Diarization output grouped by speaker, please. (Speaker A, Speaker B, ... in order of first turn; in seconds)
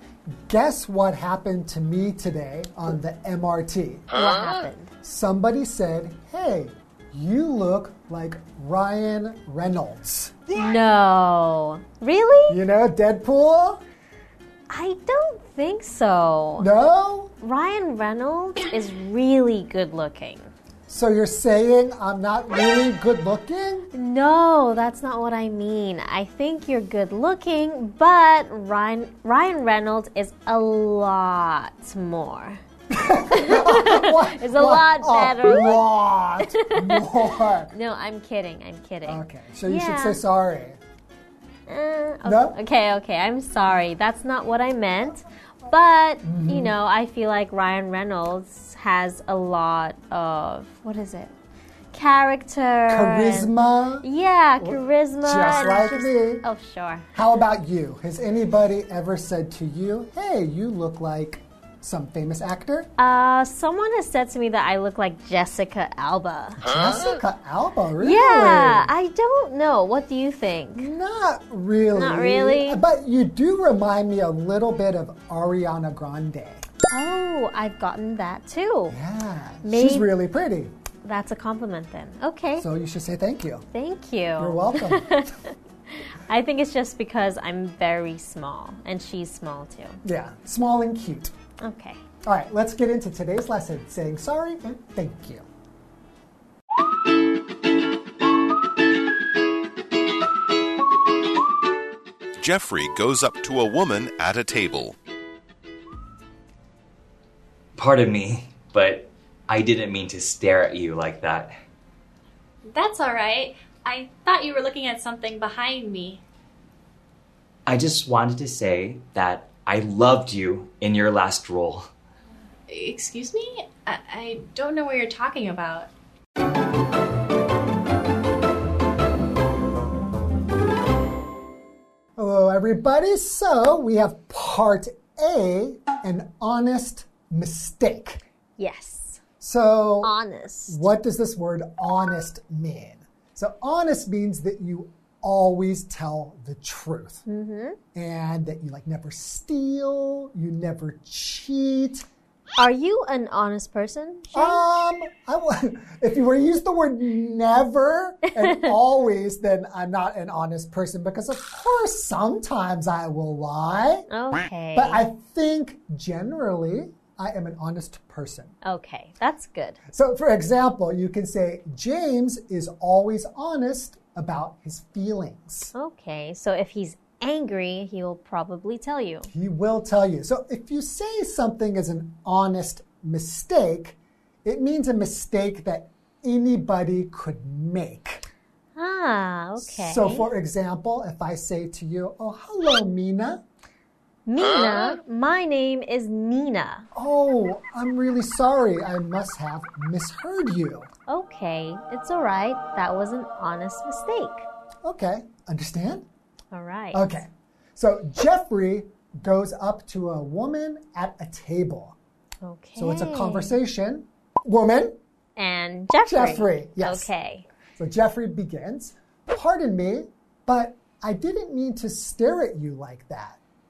Speaker A: 0.5-4.0, 5.0-10.6, 12.5-13.8, 16.6-17.3, 20.9-23.9, 32.9-37.7, 39.0-40.8, 42.2-42.5, 46.2-46.7, 52.9-54.0, 54.6-56.5, 57.1-62.9, 66.7-68.9, 70.8-76.7, 78.9-80.7, 82.6-83.7, 84.4-85.1, 90.0-91.3, 92.2-95.5, 132.2-138.2, 139.4-140.1, 140.7-147.2, 147.9-152.0, 154.3-164.1, 164.8-168.5, 169.9-175.7, 179.3-188.2, 189.6-193.4, 196.9-200.9, 204.8-206.1, 206.9-211.9, 212.8-215.0, 216.1-217.1, 217.8-223.4
Speaker B: 4.1-4.9, 10.5-12.6, 14.7-16.7, 17.4-20.5, 23.9-32.6, 33.3-35.8, 36.4-37.1, 37.7-40.2, 41.7-51.3, 51.9-53.5, 54.0-57.1, 63.0-67.2, 68.0-70.9, 71.9-72.8, 76.9-79.0, 79.7-80.1, 81.0-82.7, 83.7-90.0, 91.6-92.0, 138.6-139.2, 140.0-140.8, 147.3-147.8, 152.6-154.6, 164.1-165.0, 168.6-169.8, 175.7-179.3, 188.8-190.2, 194.2-196.9, 201.1-204.4, 206.5-207.0, 212.4-213.6, 215.4-217.5
Speaker C: 102.4-105.0
Speaker D: 107.8-111.5, 117.7-121.9
Speaker E: 112.6-116.2, 122.7-125.9